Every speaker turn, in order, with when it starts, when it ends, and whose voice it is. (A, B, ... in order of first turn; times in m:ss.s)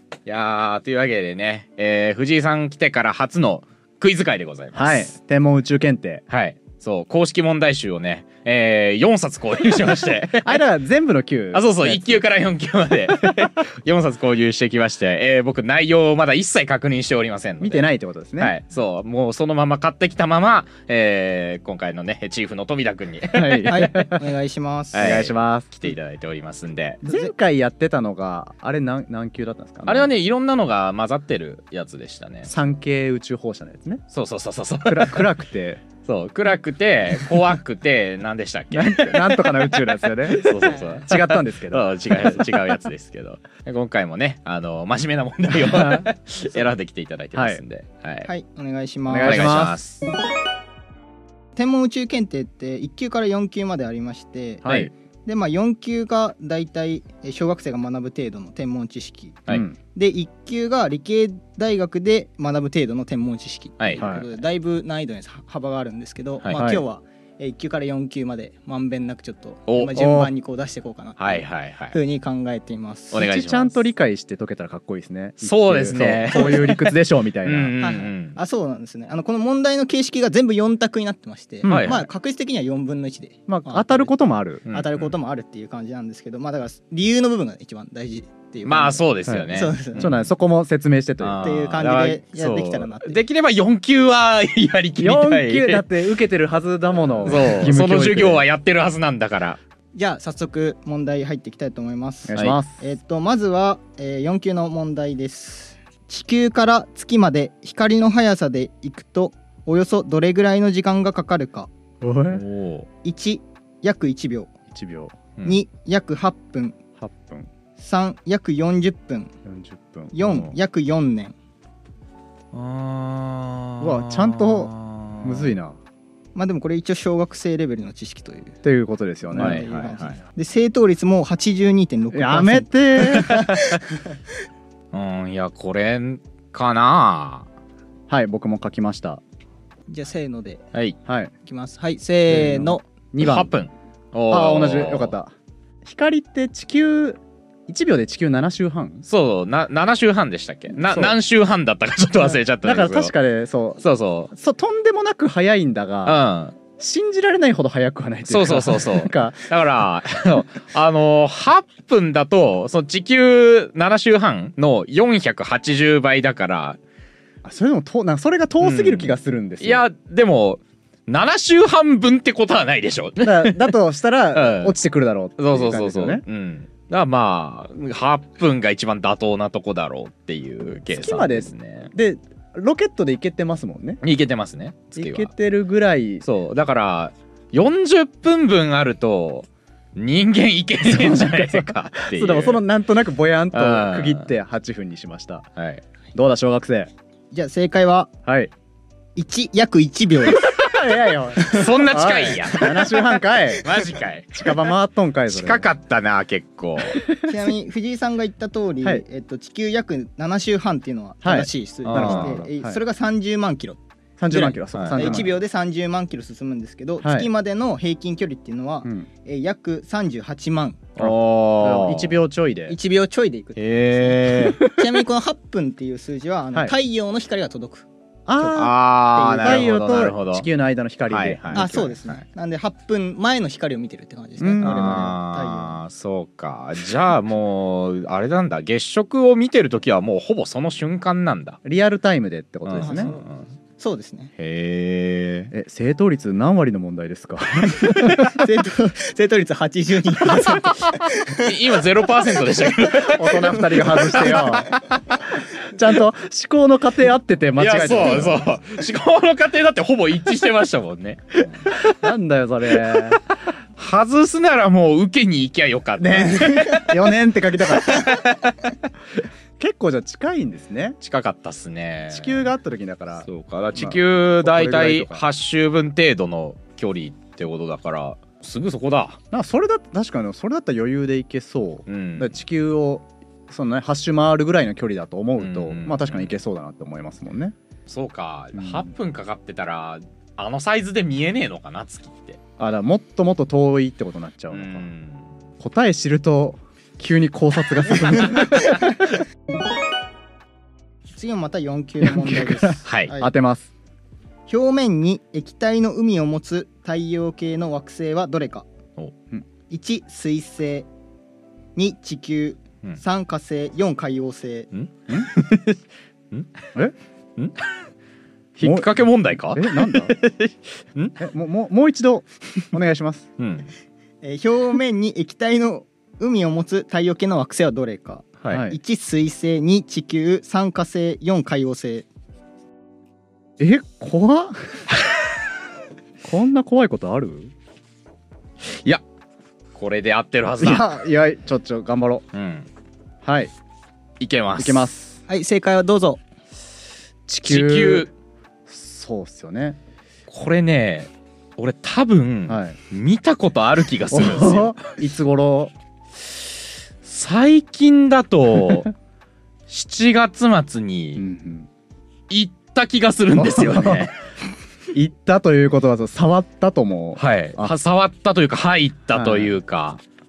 0:00.2-0:05.1 A
0:04.7-0:06.2 B
0:06.3-0:10.6 A
0:10.3-0:12.2 B
0:11.5-0:17.8 A
0:17.6-0:18.5 B
0:18.4-0:23.7 A
0:23.3-0:24.2 B
0:23.6-0:25.0 C
0:24.9-0:27.0 A
0:24.9-0:25.8 B
0:27.0-0:30.1 B
0:29.8-0:32.5 A
0:32.4-0:34.0 B
0:34.1-0:35.3 A
0:34.8-0:35.8 B
0:36.0-0:48.3 A
0:38.7-0:42.4 B
0:45.5-0:46.1 B
0:47.3-0:47.6 B
0:48.2-0:49.5 C
0:49.1-0:49.8 B
0:49.2-0:50.0 A
0:51.6-0:54.7 C
0:54.6-0:54.9 B
0:54.6-0:54.9 A
0:55.2-1:13.3 C
0:59.5-0:59.8 B
1:03.8-1:04.1 A
1:04.0-1:04.3 B
1:06.5-1:06.8 B
1:09.7-1:10.0 A
1:10.0-1:10.3 B
1:11.2-1:12.0 A
1:13.1-1:13.7 A
1:13.2-1:17.7 B
1:15.4-1:16.9 A
1:16.3-1:16.8 C
1:17.4-1:18.4 A
1:17.8-1:24.1 C
1:21.6-1:22.0 B
1:21.6-1:22.1 A
1:23.5-1:24.6 B
1:24.7-1:30.1 C
1:24.7-1:25.1 A
1:28.6-1:30.3 A
1:29.2-1:31.5 B
1:31.2-1:35.8 A
1:31.4-1:33.2 C
1:35.0-1:38.4 B
1:37.2-1:39.6 A
1:39.9-1:51.7 C
1:42.3-1:42.8 B
1:52.0-1:52.4 B
1:52.3-1:52.9 A
1:53.0-1:54.5 C
1:54.7-1:55.2 B
1:55.4-1:56.8 C
1:57.0-1:57.5 B
1:57.8-1:59.3 C
1:59.4-2:00.6 B
2:00.1-2:01.4 C
2:02.5-2:05.5 A
2:03.8-2:05.8 B
2:06.3-2:08.5 C
2:08.6-2:10.0 B
2:09.3-2:14.0 C
2:09.4-2:10.2 A
2:12.1-2:13.4 B
2:14.9-2:17.5 A
2:18.1-2:19.2 B
2:19.9-2:20.6 C
2:21.0-2:21.3 B
2:21.4-2:22.8 C
2:22.3-2:23.5 B
2:23.2-2:25.1 A
2:24.3-2:25.3 B
2:25.8-2:29.0 B
2:29.0-2:33.1 A
2:30.7-2:31.2 B
2:32.2-2:33.8 B
2:33.8-2:34.3 A
2:34.3-2:36.2 B
2:36.0-2:36.6 A
2:36.8-2:39.5 B
2:38.3-2:46.8 A
2:47.4-2:49.8 B
2:48.6-2:53.7 A
2:53.2-2:56.2 B
2:54.3-2:54.7 A
2:55.4-3:01.9 A
3:00.9-3:04.0 B
3:04.0-3:05.3 A
3:05.0-3:06.2 B
3:06.2-3:12.6 A
3:10.8-3:15.5 B
3:13.5-3:14.3 A
3:15.6-3:15.8 A
3:16.1-3:16.9 B
3:17.3-3:18.1 C
3:18.2-3:18.5 B
3:19.2-3:20.6 C
3:20.4-3:25.7 B
3:21.4-3:21.9 C
3:21.4-3:23.0 A
3:23.5-3:24.7 A
3:25.3-3:27.0 A
3:26.9-3:27.3 B
3:27.2-3:33.8 C
3:31.2-3:32.8 B
3:31.8-3:32.4 A
3:34.2-3:35.4 B
3:34.3-3:35.2 A
3:34.3-3:40.8 C
3:37.0-3:37.3 B
3:41.0-3:42.2 A
3:41.0-3:42.8 B
3:42.7-3:47.9 C
3:43.6-3:44.6 A
3:48.3-3:48.7 B
3:48.4-3:49.7 C
3:48.5-3:50.5 A
3:49.4-3:52.0 B
3:51.1-3:52.1 A
3:51.5-3:55.8 C
3:54.4-3:55.2 B
3:54.6-4:01.6 A
4:01.6-4:03.1 B
4:02.6-4:03.4 A
4:02.8-4:04.3 C
4:04.4-4:05.5 A
4:05.5-4:08.3 B
4:08.2-4:11.7 C
4:11.3-4:15.2 A
4:12.4-4:12.7 C
4:12.8-4:14.7 B
4:13.7-4:14.2 C
4:15.3-4:18.5 B
4:17.6-4:21.8 A
4:21.7-4:23.2 B
4:22.8-4:23.2 A
4:23.8-4:27.0 A
4:26.0-4:28.3 B
4:27.9-4:28.2 A
4:29.6-4:31.0 B
4:31.0-4:32.4 A
4:32.1-4:35.2 B
4:33.3-4:39.2 A
4:39.3-4:47.5 B
4:41.9-4:42.3 A
4:45.4-4:46.3 A
4:47.9-4:52.4 A
4:48.5-4:48.9 B
4:52.6-4:54.9 B
4:54.5-4:55.2 A
4:55.6-4:58.9 B
5:01.1-5:03.3 C
5:02.0-5:03.7 B
5:02.8-5:03.1 A
5:04.5-5:08.7 C
5:09.7-5:10.9 C
5:11.8-5:14.7 C
5:14.7-5:15.8 A
5:17.4-5:17.6 A
5:18.6-5:21.1 A
5:18.6-5:18.9 B
5:19.4-5:20.1 B
5:21.2-5:23.3 B
5:23.4-5:23.7 A
5:24.2-5:32.1 C
5:28.5-5:28.8 B
5:33.6-5:35.0 B
5:36.2-5:37.5 B
5:38.6-5:39.0 A
5:39.7-5:40.9 A
5:40.6-5:42.2 B
5:42.3-5:42.7 A
5:43.2-5:43.5 B
5:44.2-5:44.9 A
5:44.6-5:45.2 B
5:45.3-5:46.2 C
5:47.3-5:48.1 B
5:47.4-5:48.1 A
5:48.7-5:49.8 B
5:50.3-5:54.8 A
5:52.5-5:52.8 B
5:54.1-5:55.7 B
5:57.0-5:58.9 A
5:59.7-6:01.2 A
6:01.2-6:01.7 B
6:02.3-6:04.1 A
6:03.3-6:04.1 B
6:04.9-6:07.7 B
6:07.2-6:10.0 A
6:09.1-6:09.5 B